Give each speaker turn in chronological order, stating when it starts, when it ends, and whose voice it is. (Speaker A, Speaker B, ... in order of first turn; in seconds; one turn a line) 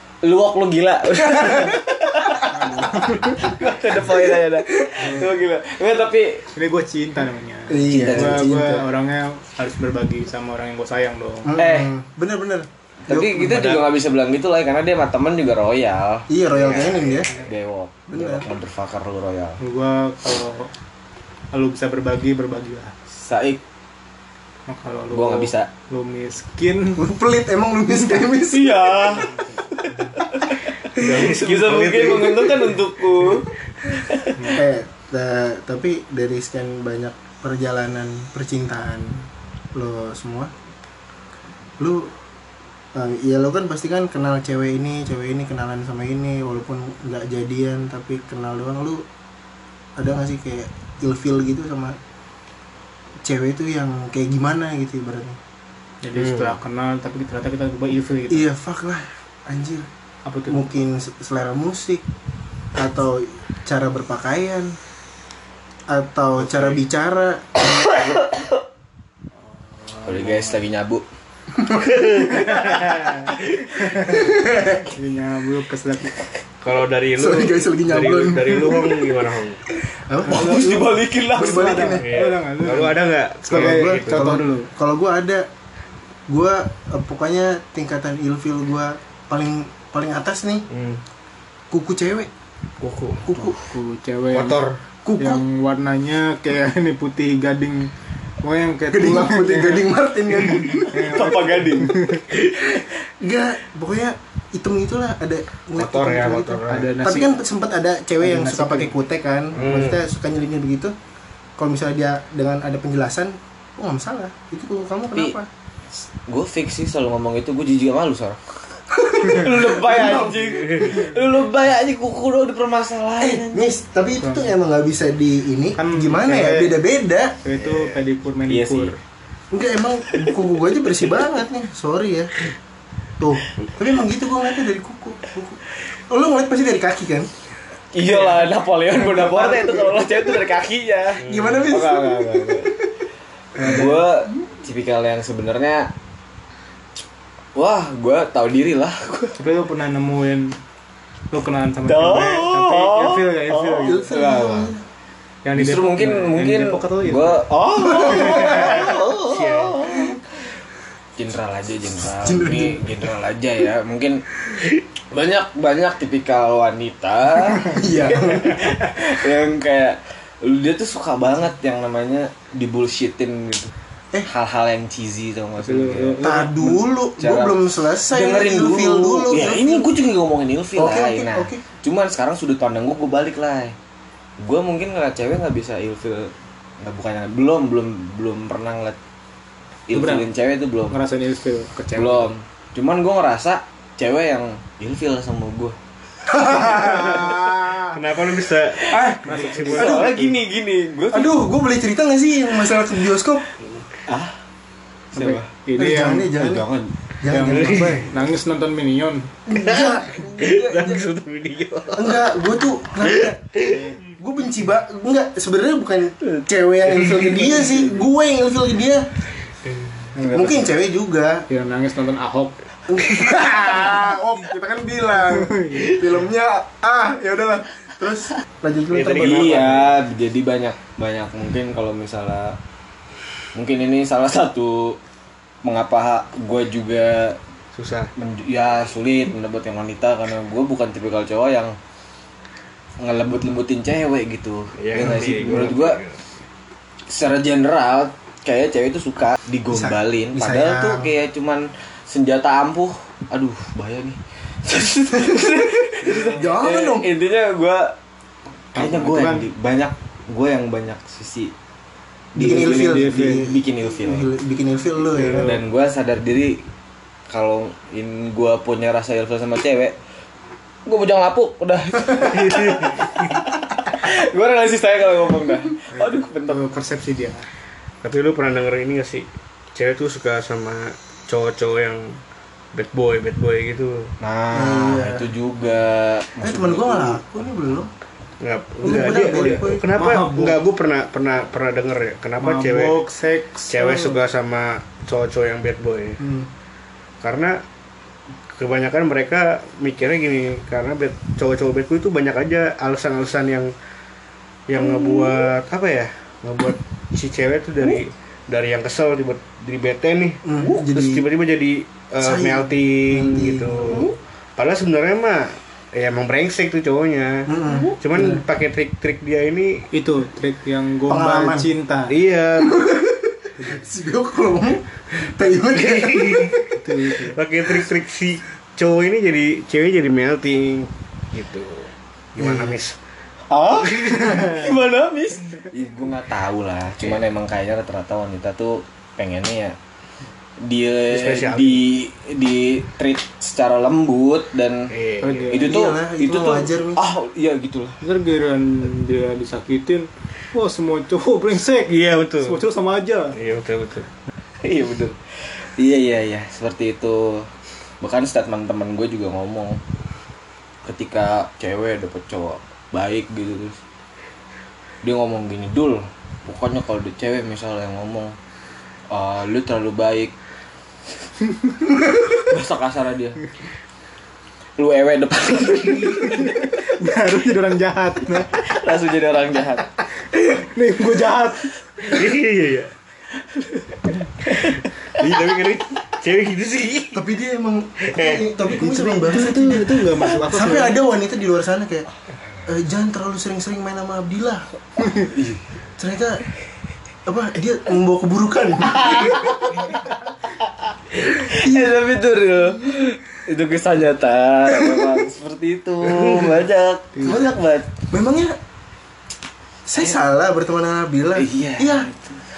Speaker A: 0.2-6.5
Speaker B: 2.4-3.5
Speaker B: 5.0-5.3
Speaker B: 6.5-11.5
Speaker C: 7.7-8.8
Speaker A: 7.9-8.5
Speaker C: 11.4-13.8
Speaker A: 11.5-11.9
Speaker A: 13.1-19.6
Speaker C: 16.3-17.3
Speaker D: 16.7-16.9
Speaker C: 18.1-18.5
Speaker B: 19.6-20.7
Speaker B: 21.5-22.9
Speaker A: 23.1-23.6
Speaker B: 24.7-27.1
Speaker A: 25.1-25.7
Speaker C: 27.0-29.2
Speaker A: 28.4-34.5
Speaker D: 30.9-32.8
Speaker C: 34.5-40.5
Speaker C: 41.8-42.1
Speaker C: 42.9-49.0
Speaker C: 50.0-52.0
Speaker C: 53.2-55.4
Speaker B: 56.0-58.5
Speaker D: 56.2-56.5
Speaker C: 58.3-59.9
Speaker B: 60.2-60.6
Speaker C: 60.5-62.0
Speaker C: 62.7-64.8
Speaker C: 65.9-67.9
Speaker A: 67.9-68.5
Speaker B: 69.8-70.6
Speaker A: 70.0-71.0
Speaker C: 71.6-72.2
Speaker D: 71.7-73.1
Speaker B: 72.5-76.2
Speaker C: 74.1-74.9
Speaker D: 76.6-79.6
Speaker C: 77.2-79.2
Speaker C: 79.9-82.3
Speaker A: 80.2-81.8
Speaker B: 80.3-84.7
Speaker D: 82.0-84.4
Speaker C: 83.5-85.5
Speaker C: 86.3-90.7
Speaker D: 90.7-91.0
Speaker C: 91.7-92.3
Speaker D: 92.8-93.3
Speaker C: 93.2-93.6
Speaker B: 93.4-94.6
Speaker D: 94.3-94.8
Speaker C: 95.0-95.4
Speaker B: 95.2-97.9
Speaker B: 98.4-99.9
Speaker C: 98.9-101.2
Speaker B: 100.7-102.2
Speaker A: 100.9-102.2
Speaker C: 102.8-110.9
Speaker D: 105.8-106.9
Speaker B: 106.7-107.4
Speaker B: 108.2-108.9
Speaker D: 109.5-110.0
Speaker C: 111.6-115.5
Speaker A: 115.9-118.4
Speaker A: 118.9-123.7
Speaker C: 119.0-120.9
Speaker C: 123.2-127.4
Speaker B: 124.2-124.5
Speaker B: 125.8-126.8
Speaker B: 127.4-128.9
Speaker A: 128.5-128.9
Speaker C: 129.5-132.3
Speaker C: 133.2-137.3
Speaker A: 137.9-142.8
Speaker B: 138.0-138.4
Speaker C: 139.2-140.1
Speaker D: 141.2-141.7
Speaker C: 141.2-142.9
Speaker C: 143.6-143.9
Speaker A: 143.6-145.9
Speaker A: 147.5-149.4
Speaker B: 149.4-150.6
Speaker B: 151.3-154.1
Speaker A: 151.8-154.7
Speaker C: 153.8-154.8
Speaker B: 155.4-157.5
Speaker A: 155.5-160.2
Speaker C: 157.9-158.9
Speaker D: 159.2-159.9
Speaker A: 161.2-164.2
Speaker C: 162.2-162.9
Speaker A: 165.1-173.7
Speaker C: 167.6-168.7
Speaker A: 174.3-176.2
Speaker B: 175.6-176.8
Speaker C: 176.2-179.9
Speaker A: 177.2-183.7
Speaker C: 180.8-181.6
Speaker A: 184.4-189.0
Speaker A: 189.9-190.9
Speaker B: 189.9-190.3
Speaker B: 190.9-192.3
Speaker A: 191.9-195.8
Speaker C: 196.2-198.0
Speaker A: 196.7-197.4
Speaker D: 197.9-200.2
Speaker A: 198.7-201.4
Speaker C: 198.9-199.2
Speaker B: 199.2-200.1
Speaker C: 199.8-200.2
Speaker C: 201.1-203.5
Speaker A: 204.1-204.4
Speaker A: 205.1-205.5
Speaker B: 205.1-206.3
Speaker C: 205.8-206.7
Speaker A: 206.3-206.9
Speaker C: 207.2-208.1
Speaker B: 207.3-209.3
Speaker D: 207.4-208.1
Speaker C: 209.5-211.0
Speaker D: 209.5-212.3
Speaker C: 211.9-219.1
Speaker D: 213.0-213.8
Speaker B: 213.7-214.0
Speaker B: 220.1-220.7
Speaker C: 220.3-221.4
Speaker B: 221.5-222.6
Speaker C: 222.9-229.7
Speaker B: 225.2-226.1
Speaker D: 228.9-229.9
Speaker A: 229.1-232.6
Speaker A: 233.5-235.0
Speaker A: 235.6-237.4
Speaker D: 237.7-238.1
Speaker A: 238.2-241.8
Speaker A: 243.0-246.0
Speaker D: 244.8-246.2
Speaker A: 247.1-257.9
Speaker C: 249.7-251.1
Speaker C: 256.0-257.1
Speaker B: 258.7-259.4
Speaker A: 258.7-261.5
Speaker A: 262.3-264.3
Speaker C: 262.4-265.5
Speaker B: 262.4-263.4
Speaker A: 265.2-266.6
Speaker A: 267.3-269.9
Speaker A: 270.9-276.6
Speaker D: 272.2-273.4
Speaker B: 275.9-277.5
Speaker D: 278.0-282.2
Speaker D: 282.7-284.1
Speaker A: 284.2-287.2
Speaker C: 284.5-285.3
Speaker C: 286.4-287.9
Speaker D: 288.4-293.0
Speaker C: 288.8-289.9
Speaker B: 288.9-290.6
Speaker B: 292.4-294.2
Speaker D: 293.7-296.2
Speaker C: 296.2-296.5
Speaker D: 297.2-297.6
Speaker D: 298.5-303.7
Speaker D: 304.7-319.9
Speaker C: 310.4-311.2
Speaker C: 312.2-314.1
Speaker C: 317.5-318.4
Speaker B: 319.9-322.1
Speaker C: 321.1-321.7
Speaker D: 322.1-322.8
Speaker C: 322.6-326.7
Speaker D: 325.7-333.0
Speaker B: 326.7-327.4
Speaker C: 332.4-332.8
Speaker A: 333.5-339.8
Speaker A: 340.6-344.9
Speaker D: 341.1-341.8
Speaker D: 344.9-345.5
Speaker B: 345.2-345.7
Speaker A: 345.5-348.0
Speaker C: 345.6-347.0
Speaker B: 348.0-353.4
Speaker D: 351.9-352.6
Speaker D: 353.3-354.1
Speaker A: 354.6-357.5
Speaker A: 358.0-359.8
Speaker A: 360.8-363.8
Speaker A: 365.0-368.3
Speaker A: 369.1-370.3
Speaker A: 372.3-373.4
Speaker A: 374.8-376.7
Speaker B: 376.2-378.6
Speaker A: 378.6-379.9
Speaker B: 380.2-381.7
Speaker D: 382.0-382.9
Speaker D: 384.7-387.2
Speaker C: 387.1-392.1
Speaker D: 388.0-388.6
Speaker B: 388.7-391.0
Speaker C: 392.6-394.7
Speaker A: 395.3-395.6
Speaker C: 396.0-396.4
Speaker C: 397.2-399.8
Speaker A: 399.0-399.9
Speaker A: 400.7-407.9
Speaker C: 401.5-401.9
Speaker D: 406.2-406.6
Speaker C: 407.2-408.6
Speaker C: 409.9-412.1
Speaker A: 411.4-412.4